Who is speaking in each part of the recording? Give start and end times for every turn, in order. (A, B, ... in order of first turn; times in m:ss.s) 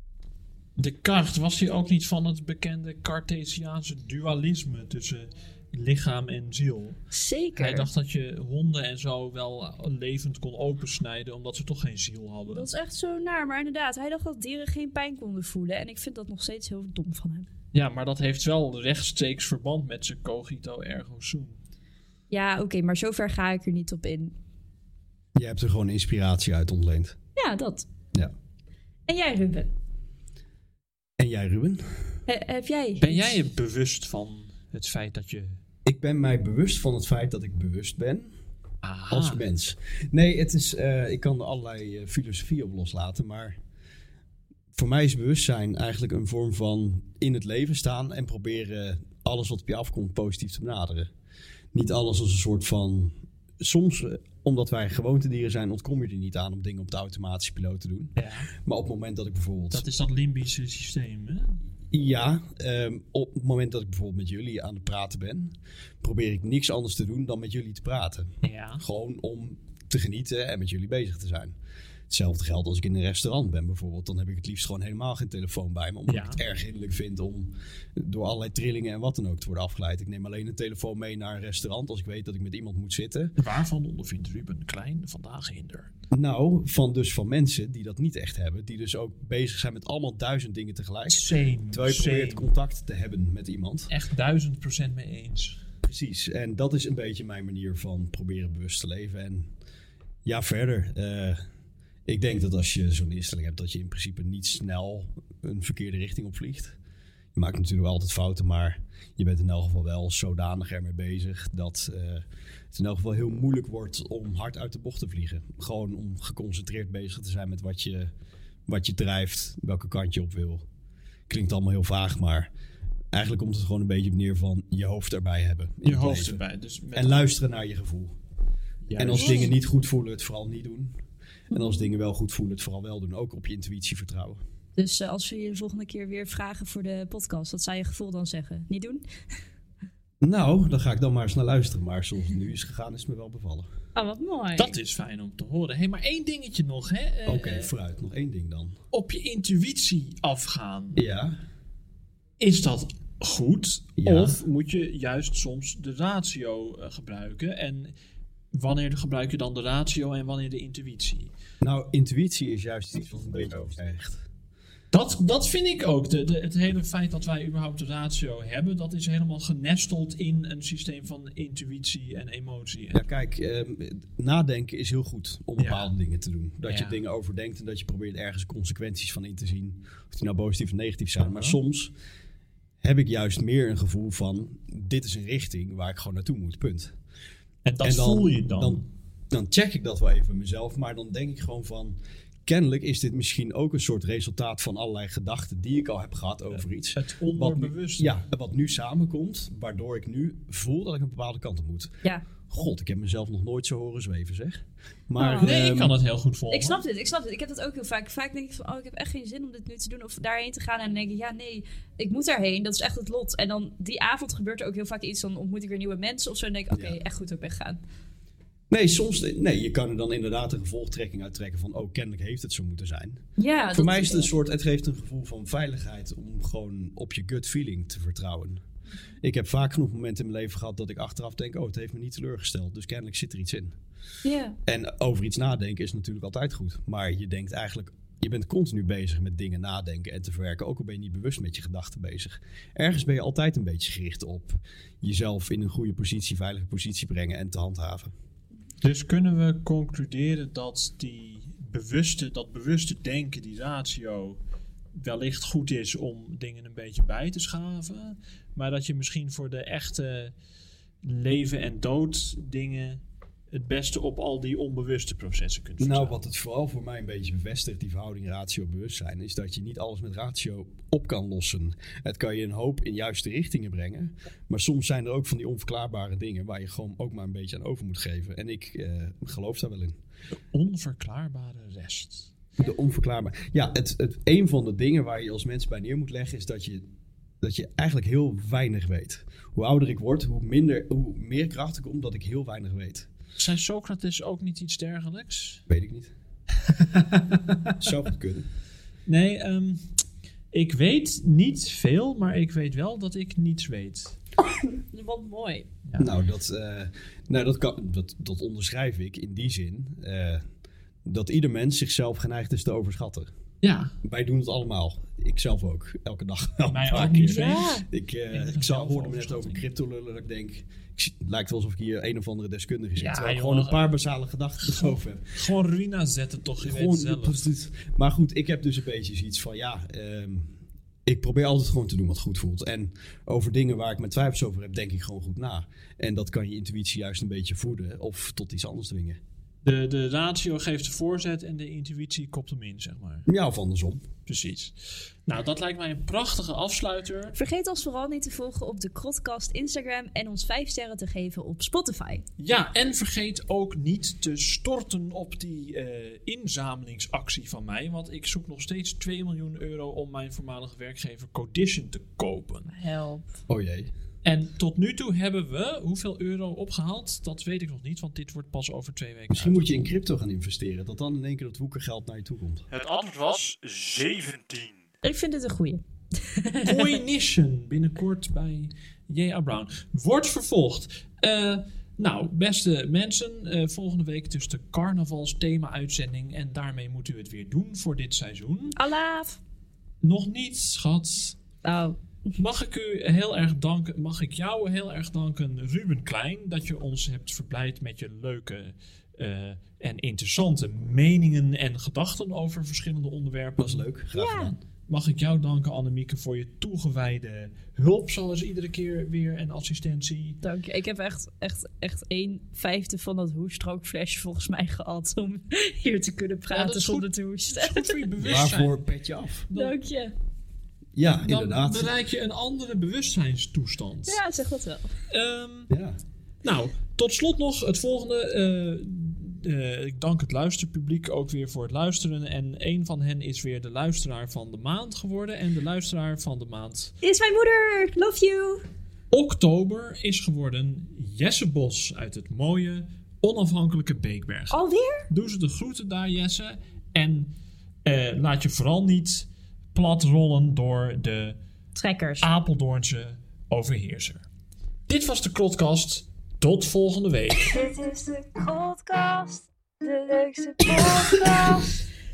0:00.8-0:07.0 A
0:07.1-0:07.9 B
0:07.6-0:12.7 A
0:12.5-0:17.5 B
0:17.7-0:21.6 A
0:22.3-0:24.4 B
0:25.4-0:27.2 C
0:27.4-0:27.9 B
0:29.1-0:29.7 B
0:31.2-0:32.2 C
0:32.3-0:33.4 B
0:33.0-0:35.6 A
0:35.8-0:38.3 C
0:38.8-0:39.4 A
0:39.1-0:43.6 C
0:44.7-0:51.1 C
0:51.7-0:59.8 C
0:58.2-0:58.5 A
0:59.7-1:01.6 A
1:01.9-1:11.6 C
1:08.4-1:08.8 A
1:12.1-1:23.4 C
1:16.1-1:16.4 A
1:23.4-1:25.9 A
1:26.1-1:33.9 C
1:31.1-1:32.5 A
1:33.9-1:35.6 A
1:35.8-1:39.5 C
1:40.2-1:41.4 C
1:42.1-1:46.8 C
1:47.4-1:58.1 C
1:58.7-2:00.7 C
2:01.3-2:02.5 C
2:03.1-2:06.4 C
2:05.8-2:07.2 A
2:07.0-2:08.2 C
2:08.8-2:09.6 A
2:09.0-2:11.0 C
2:09.2-2:09.4 B
2:11.5-2:11.8 B
2:11.5-2:14.4 C
2:14.8-2:19.0 B
2:20.2-2:23.7 C
2:24.0-2:24.8 B
2:24.6-2:27.7 A
2:27.3-2:28.8 C
2:28.9-2:31.0 A
2:31.0-2:31.4 C
2:32.4-2:37.9 A
2:34.0-2:34.4 C
2:38.5-2:41.3 A
2:41.6-2:44.3 C
2:44.9-2:53.0 A
2:52.9-3:01.9 C
2:55.6-2:55.9 A
2:56.6-2:57.0 A
3:01.2-3:01.6 A
3:02.8-3:07.0 C
3:07.7-3:08.8 A
3:07.8-3:22.0 C
3:16.6-3:18.2 A
3:22.5-3:26.0 C
3:25.2-3:25.6 B
3:25.4-3:26.8 A
3:26.5-3:37.8 B
3:36.7-3:37.0 C
3:38.7-3:43.2 C
3:43.4-3:44.3 B
3:43.7-3:48.6 C
3:49.2-3:53.8 C
3:54.2-3:54.6 B
3:54.6-4:08.1 C
4:08.8-4:14.4 A
4:15.0-4:20.4 A
4:21.0-4:26.2 A
4:25.8-4:40.0 C
4:40.5-4:42.3 A
4:42.6-4:46.9 C
4:47.4-4:53.1 C
4:53.4-4:55.6 A
4:55.7-4:56.1 C
4:56.6-4:57.9 A
4:57.8-4:58.5 C
4:59.1-4:59.9 A
5:00.5-5:04.2 A
5:04.6-5:05.7 B
5:05.9-5:06.1 A
5:06.0-5:10.4 C
5:11.0-5:13.3 C
5:13.6-5:14.0 A
5:14.0-5:25.4 C
5:16.7-5:17.8 A
5:17.3-5:17.8 B
5:18.3-5:19.6 A
5:23.0-5:23.9 A
5:24.6-5:27.5 A
5:26.6-5:39.2 C
5:39.6-5:43.3 A
5:43.3-5:44.0 C
5:44.3-5:47.4 A
5:47.4-5:52.2 B
5:52.4-6:02.7 A
6:02.7-6:03.4 B
6:03.5-6:03.9 C
6:04.2-6:09.9 A
6:09.3-6:12.7 C
6:12.7-6:14.8 A
6:15.0-6:17.0 B
6:16.6-6:28.8 A
6:28.8-6:29.4 B
6:30.0-6:31.4 A
6:31.6-6:32.4 B
6:32.4-6:43.9 A
6:43.6-6:44.6 C
6:44.2-6:44.5 B
6:44.9-6:50.4 A
6:50.4-6:58.0 B
6:56.5-6:58.8 A
6:58.2-6:59.5 C
6:59.5-6:59.8 A
6:59.5-7:00.1 B
7:01.0-7:01.9 C
7:01.2-7:04.2 A
7:04.1-7:05.0 B
7:05.1-7:05.7 A
7:05.7-7:06.0 C
7:06.4-7:16.9 A
7:17.0-7:18.6 B
7:19.1-7:27.3 A
7:24.5-7:25.1 B
7:27.8-7:31.4 A
7:31.8-7:32.3 B
7:32.2-7:34.2 A
7:34.9-7:37.5 A
7:37.4-7:41.8 D